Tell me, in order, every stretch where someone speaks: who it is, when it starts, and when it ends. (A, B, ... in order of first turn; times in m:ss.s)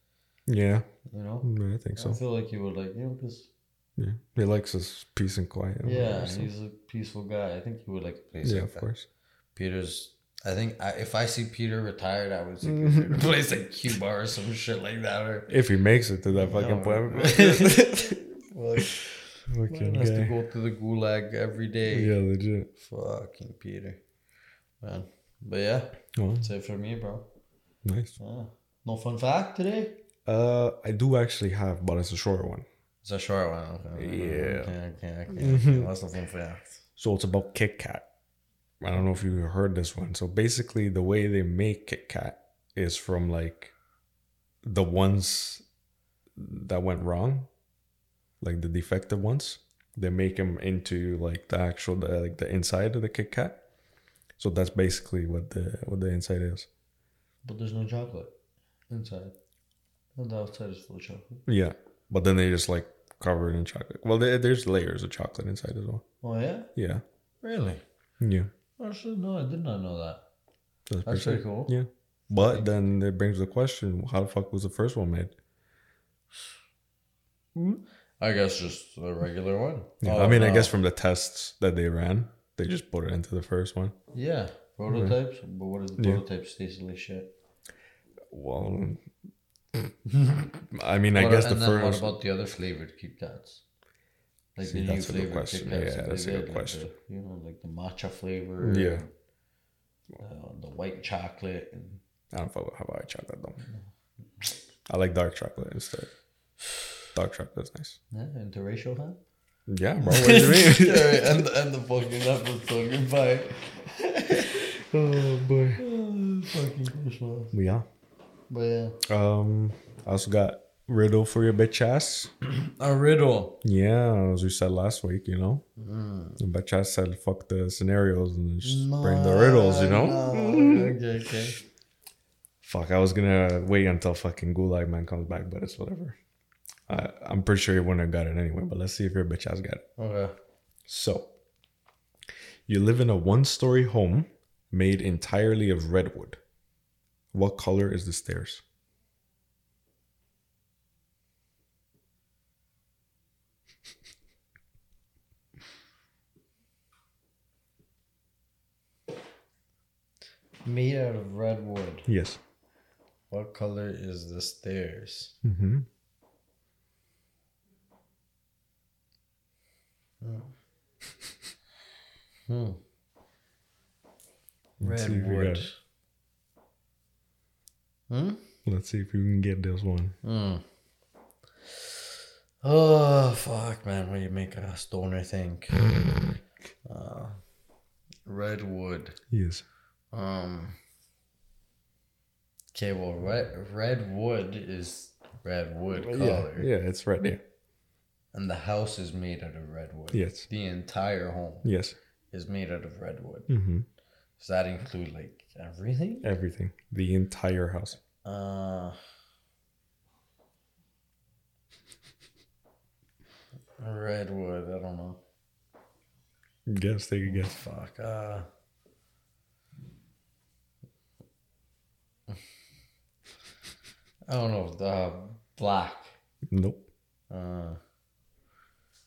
0:00.5-0:00.8 A
0:01.0-0:03.5 B
0:01.4-0:02.2 A
0:04.0-0:06.5 A
0:05.8-0:08.9 B
0:08.4-0:09.1 A
0:09.5-0:15.5 B
0:12.6-0:13.2 A
0:15.5-0:18.2 A
0:16.3-0:22.2 B
0:18.9-0:20.3 A
0:21.9-0:22.7 A
0:22.7-0:24.0 B
0:24.8-0:27.3 B
0:26.2-0:26.5 A
0:27.8-0:28.2 A
0:28.2-0:30.0 B
0:30.2-0:32.6 A
0:33.0-0:36.6 B
0:34.0-0:34.7 A
0:35.3-0:35.9 A
0:37.0-0:38.0 A
0:38.8-0:43.7 A
0:44.6-0:45.6 A
0:46.4-0:47.5 A
0:48.4-0:53.6 A
0:54.4-0:56.7 A
0:57.4-0:58.3 B
0:58.9-0:59.3 B
1:00.2-1:01.4 B
1:01.4-1:06.0 A
1:06.2-1:06.7 B
1:06.8-1:07.0 A
1:07.4-1:07.8 B
1:08.2-1:08.5 A
1:08.8-1:10.2 B
1:10.9-1:15.3 A
1:11.0-1:11.7 B
1:18.2-1:20.7 B
1:20.0-1:23.9 A
1:24.1-1:27.3 B
1:24.9-1:25.1 A
1:26.0-1:26.2 A
1:28.3-1:29.0 A
1:30.1-1:33.6 B
1:30.7-1:32.1 A
1:34.6-1:39.1 B
1:34.6-1:36.8 A
1:38.6-1:39.0 A
1:40.2-1:42.0 B
1:42.3-1:43.7 A
1:44.9-1:46.1 A
1:47.1-1:48.0 A
1:48.1-1:49.2 B
1:49.7-1:51.4 A
1:50.0-1:54.7 B
1:54.5-1:55.8 A
1:55.8-1:57.5 B
1:57.5-1:57.8 A
1:58.5-1:59.0 B
1:59.0-2:02.3 A
2:02.4-2:03.6 B
2:03.6-2:05.6 A
2:05.8-2:06.4 B
2:06.4-2:11.0 A
2:08.6-2:11.6 B
2:12.6-2:16.2 A
2:16.9-2:19.8 A
2:20.0-2:20.3 B
2:20.9-2:21.3 A
2:22.7-2:26.4 A
2:27.3-2:28.6 A
2:40.6-2:42.1 B
2:42.1-2:42.4 A
2:43.3-2:45.4 B
2:45.4-2:45.9 A
2:50.2-2:50.5 B
2:52.4-2:52.8 B
2:54.8-2:55.7 A
2:54.8-2:55.8 B
2:58.1-2:58.4 B
2:58.6-3:00.2 A
3:00.2-3:00.6 B
3:01.7-3:02.0 B
3:02.6-3:05.9 B
3:06.8-3:07.4 B
3:08.2-3:09.2 B
3:09.3-3:09.6 A
3:10.1-3:10.8 B
3:12.7-3:16.7 B
3:16.0-3:17.4 A
3:18.3-3:21.7 B
3:20.1-3:20.5 A
3:21.6-3:22.0 A
3:22.3-3:23.5 B
3:23.5-3:23.9 A
3:24.4-3:26.3 B
3:26.2-3:28.0 A
3:28.2-3:29.0 B
3:33.8-3:35.2 B
3:36.7-3:37.6 A
3:37.2-3:38.5 B
3:44.3-3:46.1 B
3:46.5-3:46.9 A
3:47.3-3:47.8 B